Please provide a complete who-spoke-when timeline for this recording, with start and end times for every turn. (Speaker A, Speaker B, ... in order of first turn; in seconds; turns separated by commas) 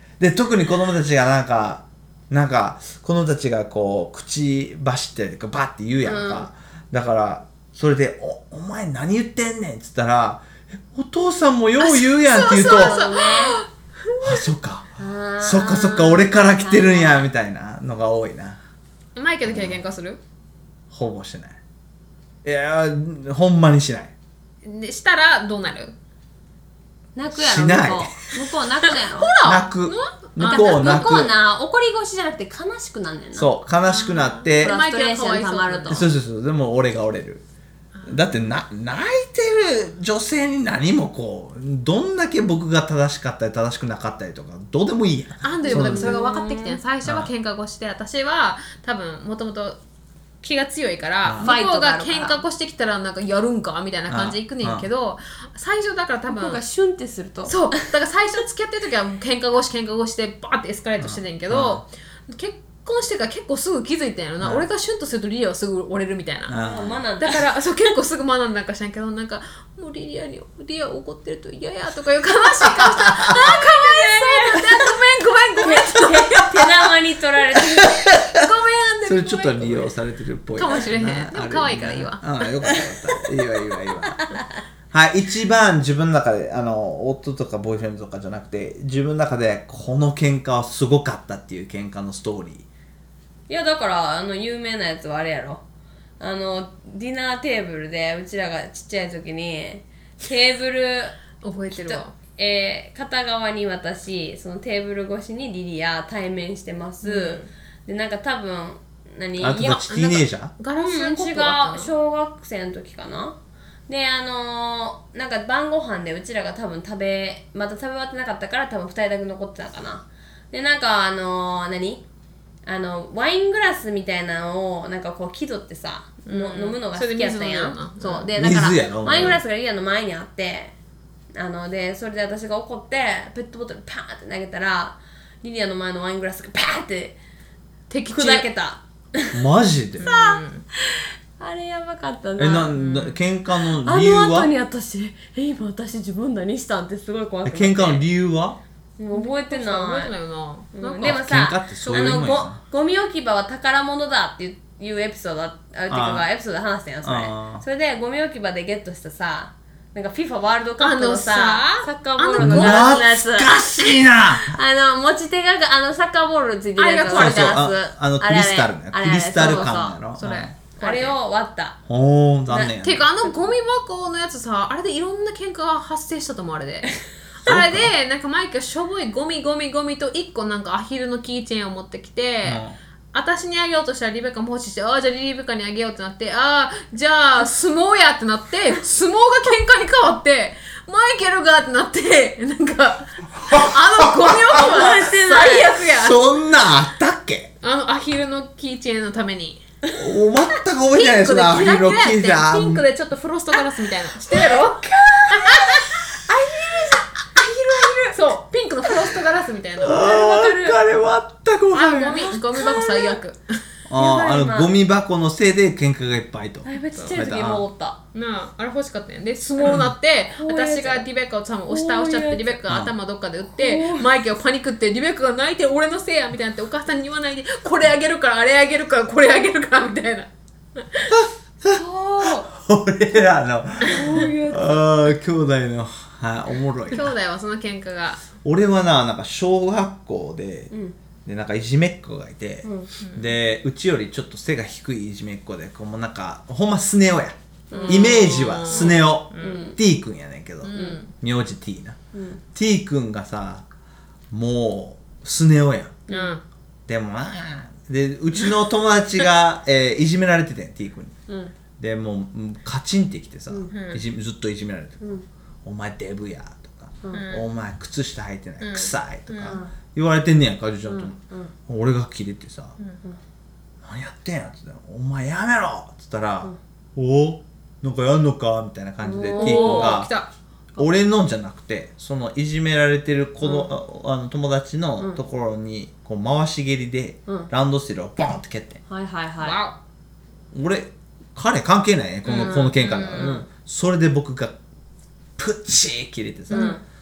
Speaker A: 0.2-13.0, Speaker B: 6.0-6.5, Speaker C: 11.8-14.5, Speaker B: 12.4-13.6, Speaker A: 14.2-18.6, Speaker B: 15.0-17.2, Speaker C: 19.1-20.2, Speaker A: 19.4-19.8, Speaker A: 20.9-21.6, Speaker A: 22.4-24.1, Speaker C: 24.6-25.9, Speaker B: 27.1-29.3, Speaker A: 27.3-28.1, Speaker C: 28.8-31.3, Speaker A: 29.4-31.3, Speaker B: 30.4-33.5, Speaker A: 33.3-34.7, Speaker C: 33.9-36.0, Speaker B: 34.6-36.0, Speaker A: 35.9-37.4, Speaker C: 37.9-38.2, Speaker A: 38.0-46.2, Speaker C: 45.4-49.8, Speaker B: 45.6-46.8, Speaker A: 47.0-47.3, Speaker C: 50.4-56.6, Speaker A: 51.2-51.6, Speaker B: 51.4-52.4, Speaker A: 54.1-54.9, Speaker B: 56.3-57.9, Speaker C: 57.5-66.6, Speaker A: 61.0-61.8, Speaker A: 66.5-67.0, Speaker B: 66.6-67.4, Speaker C: 67.2-76.9, Speaker A: 73.0-73.4, Speaker B: 73.3-74.9, Speaker B: 75.5-78.0, Speaker A: 77.6-78.5, Speaker C: 78.3-79.9, Speaker A: 79.0-84.3, Speaker C: 80.5-82.2, Speaker B: 82.7-83.2, Speaker B: 84.1-84.4, Speaker A: 84.9-92.7, Speaker B: 93.5-95.6, Speaker B: 96.2-101.2, Speaker C: 101.4-102.1, Speaker B: 101.7-109.8, Speaker C: 107.0-107.5, Speaker A: 109.4-110.5, Speaker C: 109.9-111.9, Speaker B: 110.8-113.4, Speaker B: 113.9-122.0, Speaker B: 122.7-130.7, Speaker C: 126.2-128.3, Speaker A: 128.3-129.4, Speaker B: 131.3-137.2, Speaker C: 137.9-138.5, Speaker B: 138.1-139.4, Speaker A: 139.3-140.1, Speaker C: 140.0-140.6, Speaker B: 140.0-142.7, Speaker A: 142.4-144.5, Speaker C: 142.7-143.2, Speaker B: 143.8-148.1, Speaker A: 147.4-148.6, Speaker B: 149.0-150.1, Speaker C: 149.1-152.3, Speaker B: 150.7-163.7, Speaker A: 151.0-152.6, Speaker A: 155.9-156.2, Speaker A: 157.0-157.6, Speaker C: 160.8-163.0, Speaker A: 162.4-164.6, Speaker B: 164.3-170.0, Speaker C: 166.8-167.6, Speaker A: 167.1-170.5, Speaker C: 170.2-171.2, Speaker B: 170.8-171.8, Speaker A: 171.9-173.0, Speaker B: 172.5-173.5, Speaker C: 172.8-196.3, Speaker A: 177.4-177.9, Speaker A: 182.4-182.8, Speaker A: 193.5-194.6, Speaker B: 194.5-195.7, Speaker A: 195.8-197.5, Speaker C: 197.6-199.6, Speaker A: 199.9-202.8, Speaker C: 200.9-210.0, Speaker B: 204.3-205.8, Speaker B: 206.4-206.9, Speaker A: 209.8-212.4, Speaker B: 209.8-210.8, Speaker C: 211.7-213.6, Speaker B: 212.2-213.2, Speaker A: 213.9-217.7, Speaker B: 213.9-214.7, Speaker B: 216.6-218.0, Speaker C: 216.9-217.2, Speaker C: 218.1-231.2, Speaker A: 219.6-219.9, Speaker B: 220.3-221.1, Speaker B: 221.7-222.6, Speaker A: 222.7-222.9, Speaker B: 223.5-224.1, Speaker A: 231.1-237.1, Speaker C: 231.8-232.3, Speaker B: 233.8-234.8, Speaker C: 236.9-238.2, Speaker A: 238.4-240.7, Speaker A: 241.2-252.0, Speaker C: 243.0-243.3, Speaker B: 247.7-249.8, Speaker C: 247.7-249.6, Speaker C: 250.6-251.1, Speaker B: 250.7-251.0, Speaker B: 252.1-252.4, Speaker A: 252.5-253.6, Speaker A: 254.3-256.0, Speaker B: 256.1-256.3, Speaker C: 256.1-256.4, Speaker A: 256.9-261.1, Speaker B: 261.3-261.5, Speaker A: 261.8-265.1, Speaker C: 263.7-264.0, Speaker B: 265.0-265.2, Speaker A: 265.6-272.7, Speaker C: 267.1-267.5, Speaker C: 268.6-269.6, Speaker B: 269.4-269.7, Speaker B: 270.9-271.5, Speaker A: 273.8-280.1, Speaker B: 279.0-280.0, Speaker C: 279.4-280.3, Speaker A: 280.8-288.8, Speaker B: 283.4-283.7, Speaker B: 288.9-289.6, Speaker C: 289.4-289.8, Speaker A: 290.5-294.6, Speaker C: 292.2-293.4, Speaker B: 292.4-293.4, Speaker A: 295.4-296.8, Speaker C: 296.5-296.8, Speaker B: 296.5-296.8